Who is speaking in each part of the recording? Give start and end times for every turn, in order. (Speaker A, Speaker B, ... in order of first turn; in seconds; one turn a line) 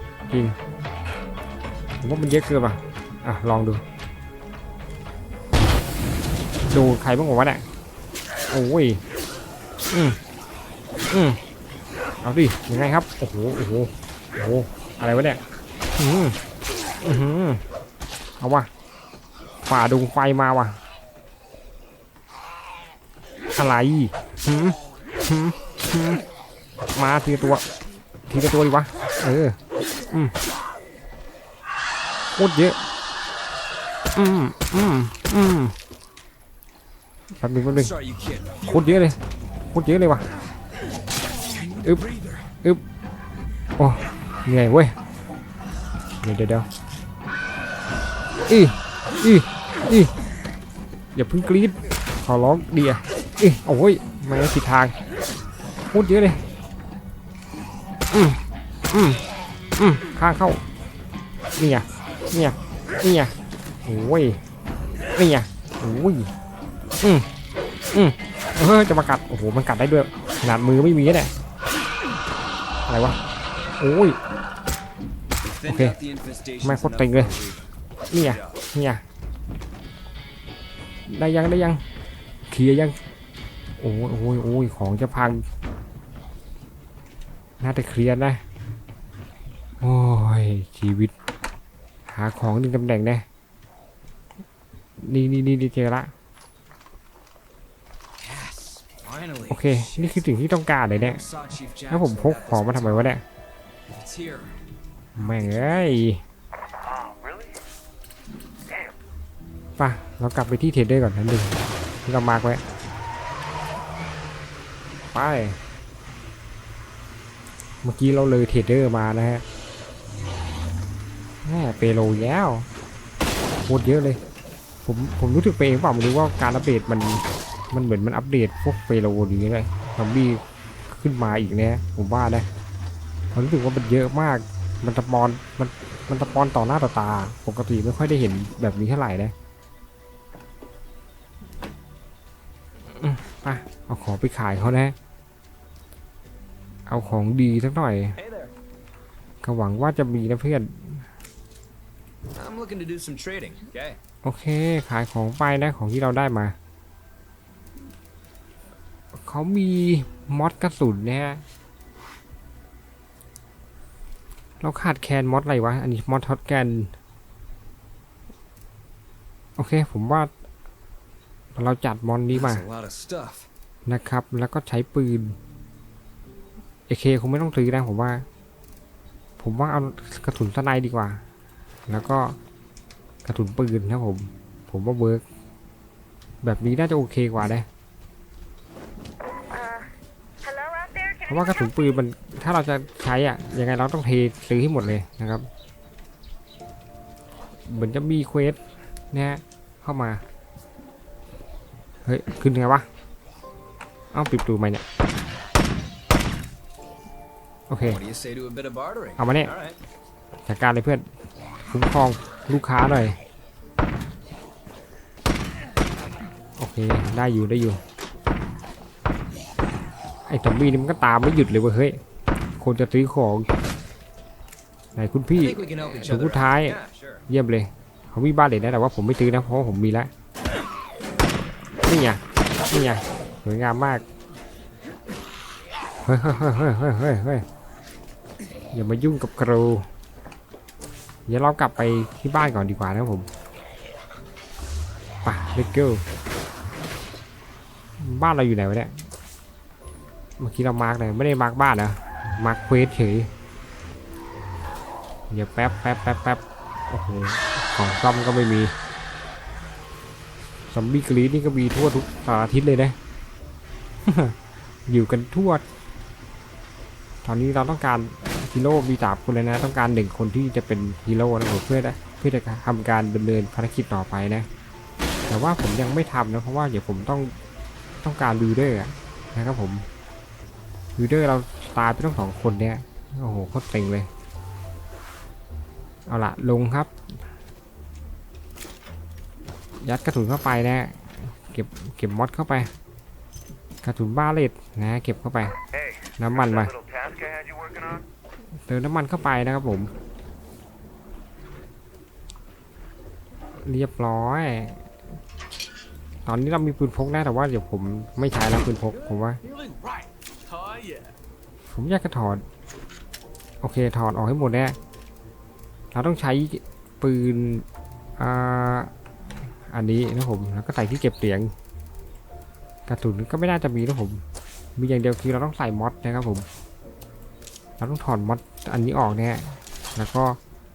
Speaker A: 0.3-0.6
Speaker A: 2.0-3.8
Speaker A: 6.7-7.7
Speaker A: 8.5-9.0
Speaker A: 9.9-10.2
Speaker A: 11.1-11.4
Speaker A: 12.2-15.4
Speaker A: 16.0-16.4
Speaker A: 17.0-17.6
Speaker A: 18.4-18.7
Speaker A: 19.6-20.8
Speaker A: 23.5-26.2
Speaker A: 26.9-27.6
Speaker A: 28.3-29.6
Speaker A: 32.4-32.8
Speaker A: 34.1-35.8
Speaker A: 37.4-37.9
Speaker B: 37.7-39.2
Speaker A: 38.7-39.2
Speaker A: 39.7-40.3
Speaker B: 41.4-42.5
Speaker A: 43.8-45.0
Speaker A: 46.2-46.7
Speaker A: 48.5-50.1
Speaker A: 51.1-55.0
Speaker A: 55.9-56.4
Speaker A: 58.1-59.2
Speaker A: 59.8-60.6
Speaker A: 61.6-63.3
Speaker A: 63.9-64.4
Speaker A: 65.1-66.3
Speaker A: 67.0-67.3
Speaker A: 67.9-71.3
Speaker A: 72.9-73.2
Speaker A: 73.8-74.2
Speaker B: 75.4-78.6
Speaker A: 75.7-76.0
Speaker A: 76.6-77.3
Speaker A: 78.1-79.0
Speaker A: 81.1-81.8
Speaker A: 82.5-83.0
Speaker A: 83.8-85.4
Speaker A: 87.6-88.4
Speaker A: 89.8-91.1
Speaker A: 92.1-93.2
Speaker A: 95.0-96.1
Speaker B: 98.2-100.3
Speaker A: 99.5-101.2
Speaker B: 100.9-103.2
Speaker A: 101.9-103.2
Speaker B: 103.9-104.6
Speaker B: 105.2-106.0
Speaker A: 105.2-106.2
Speaker C: 106.8-107.6
Speaker C: 108.7-108.9
Speaker A: 109.8-111.5
Speaker A: 112.1-112.6
Speaker A: 115.0-115.6
Speaker A: 117.8-119.4
Speaker A: 121.4-122.7
Speaker A: 123.7-124.2
Speaker A: 124.8-132.5
Speaker A: 133.3-139.3
Speaker A: 142.9-144.9
Speaker A: 146.9-148.2
Speaker B: 148.2-148.5
Speaker A: 149.4-151.1
Speaker B: 152.3-154.0
Speaker A: 154.2-156.6
Speaker A: 159.1-161.4
Speaker A: 164.6-166.9
Speaker A: 169.6-170.3
Speaker A: 171.6-172.6
Speaker B: 172.3-173.5
Speaker A: 173.9-175.4
Speaker A: 176.9-178.2
Speaker A: 179.4-181.2
Speaker A: 181.9-182.4
Speaker A: 183.2-185.2
Speaker A: 186.4-187.7
Speaker C: 189.5-189.9
Speaker C: 190.4-192.0
Speaker A: 191.3-195.5
Speaker A: 197.7-198.6
Speaker A: 199.1-200.2
Speaker A: 202.1-202.9
Speaker A: 204.1-204.8
Speaker A: 207.7-208.0
Speaker B: 207.8-209.8
Speaker A: 209.2-209.5
Speaker A: 210.5-211.0
Speaker A: 211.7-213.2
Speaker A: 216.6-217.8
Speaker A: 220.3-222.0
Speaker A: 222.6-223.5
Speaker A: 224.9-230.1
Speaker B: 225.4-227.2
Speaker A: 231.8-234.0
Speaker A: 236.1-237.5
Speaker A: 238.7-239.9
Speaker A: 241.3-243.3
Speaker A: 245.2-246.0
Speaker A: 248.0-248.9
Speaker A: 250.4-253.3
Speaker A: 255.3-258.7
Speaker A: 260.7-263.0
Speaker A: 264.1-265.6
Speaker A: 267.2-274.5
Speaker A: 275.3-277.4
Speaker A: 278.0-279.9
Speaker A: 281.0-284.1
Speaker A: 286.1-286.9
Speaker A: 289.8-292.7
Speaker A: 293.8-295.6
Speaker C: 295.5-298.1
Speaker A: 296.2-296.7
Speaker A: 298.7-299.9
Speaker A: 303.6-304.8
Speaker A: 306.3-309.4
Speaker B: 308.9-311.1
Speaker A: 311.7-312.4
Speaker A: 313.6-314.8
Speaker A: 315.9-317.6
Speaker A: 318.2-318.9
Speaker A: 319.7-321.5
Speaker A: 322.9-324.2
Speaker A: 324.8-326.5
Speaker A: 327.8-330.4